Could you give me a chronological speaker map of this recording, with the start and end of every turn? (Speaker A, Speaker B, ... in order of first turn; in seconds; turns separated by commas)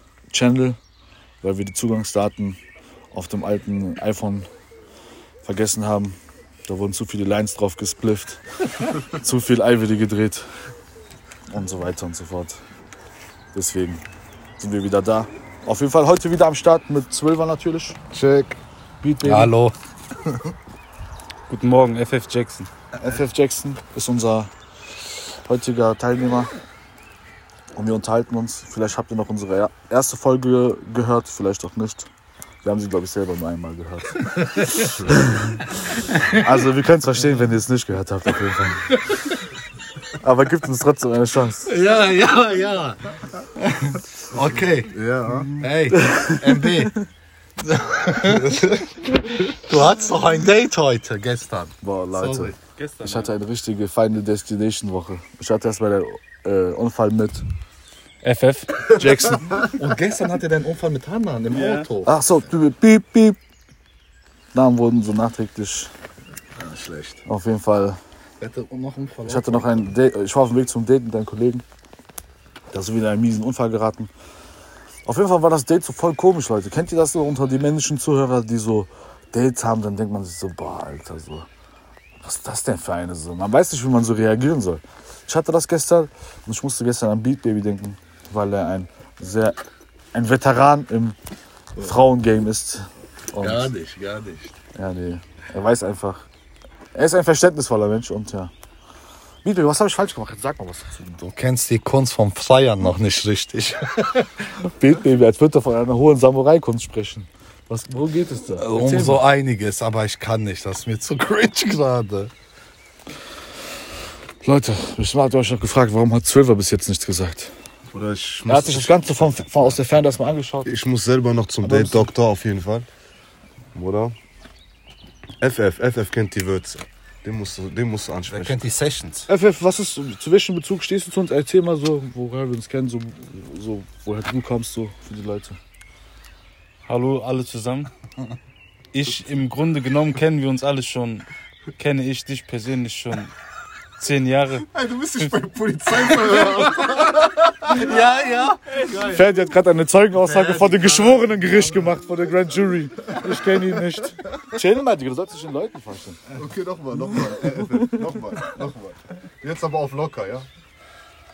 Speaker A: 0.3-0.8, Speaker A: 1.4-2.6, Speaker A: 3.1-4.5, Speaker A: 5.4-10.5, Speaker A: 11.5-12.6, Speaker A: 13.5-14.0, Speaker A: 14.6-18.0, Speaker B: 18.1-18.6, Speaker A: 19.0-19.5, Speaker C: 19.2-20.5, Speaker D: 21.5-22.7, Speaker A: 23.0-24.5, Speaker A: 25.0-26.5, Speaker A: 27.7-32.1, Speaker A: 32.6-39.3, Speaker A: 40.2-41.7, Speaker C: 41.7-46.9, Speaker B: 44.3-45.6, Speaker A: 46.0-46.7, Speaker C: 47.6-52.6, Speaker A: 51.8-57.4, Speaker D: 52.8-53.3, Speaker A: 58.2-59.6, Speaker C: 59.0-62.4, Speaker D: 61.5-61.9, Speaker A: 62.0-63.4, Speaker A: 64.5-65.9, Speaker C: 66.6-67.2, Speaker A: 67.3-68.0, Speaker C: 68.4-69.9, Speaker A: 69.2-71.6, Speaker A: 72.7-74.1, Speaker A: 75.0-81.5, Speaker A: 82.2-89.6, Speaker A: 90.1-91.2, Speaker A: 91.8-93.7, Speaker C: 93.4-94.6, Speaker A: 94.8-96.3, Speaker A: 96.9-98.5, Speaker A: 99.4-101.2, Speaker C: 101.2-104.3, Speaker A: 104.6-109.2, Speaker C: 108.6-112.3, Speaker A: 114.4-117.5, Speaker B: 117.9-119.0, Speaker A: 118.5-120.8, Speaker B: 120.7-122.9, Speaker A: 121.6-122.1, Speaker B: 123.8-124.2, Speaker B: 125.4-128.6, Speaker C: 128.3-129.3, Speaker A: 129.3-135.6, Speaker D: 136.9-137.9, Speaker D: 138.9-141.3, Speaker D: 141.8-143.3, Speaker D: 144.0-145.3, Speaker B: 144.8-148.0, Speaker C: 147.7-148.5, Speaker D: 147.7-149.2, Speaker B: 148.8-149.2, Speaker A: 149.0-156.2, Speaker C: 150.2-152.0, Speaker B: 156.3-160.5